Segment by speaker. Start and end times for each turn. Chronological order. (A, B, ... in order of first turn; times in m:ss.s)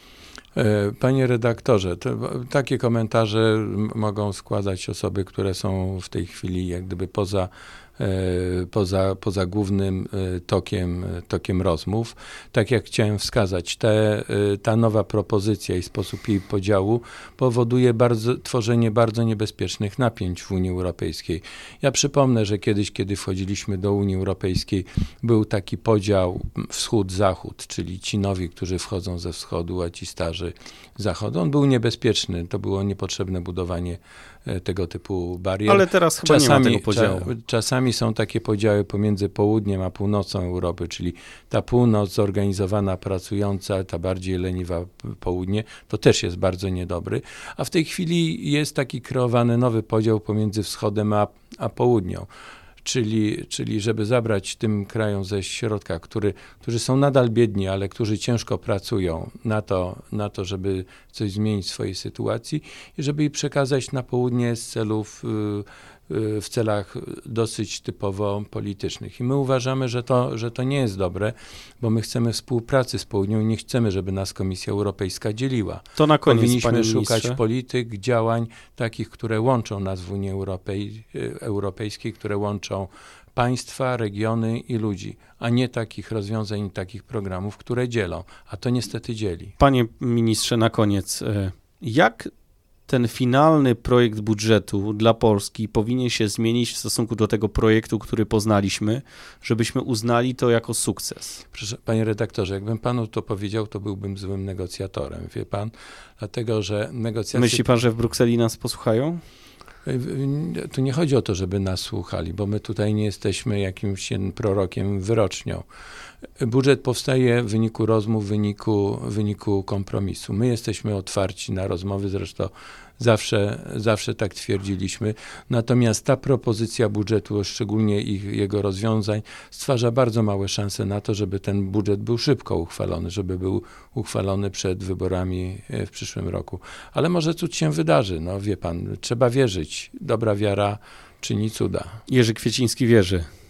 0:00.6-0:52.3 A
0:35.7-0:37.3 B
0:52.8-1:29.5 A
1:16.0-1:17.4 B
1:29.6-1:32.3 B
1:32.9-1:41.4 B
1:41.5-1:47.6 A
1:47.3-1:49.2 B
1:49.9-1:55.6 A
1:56.4-2:22.0 A
2:22.1-2:23.3 B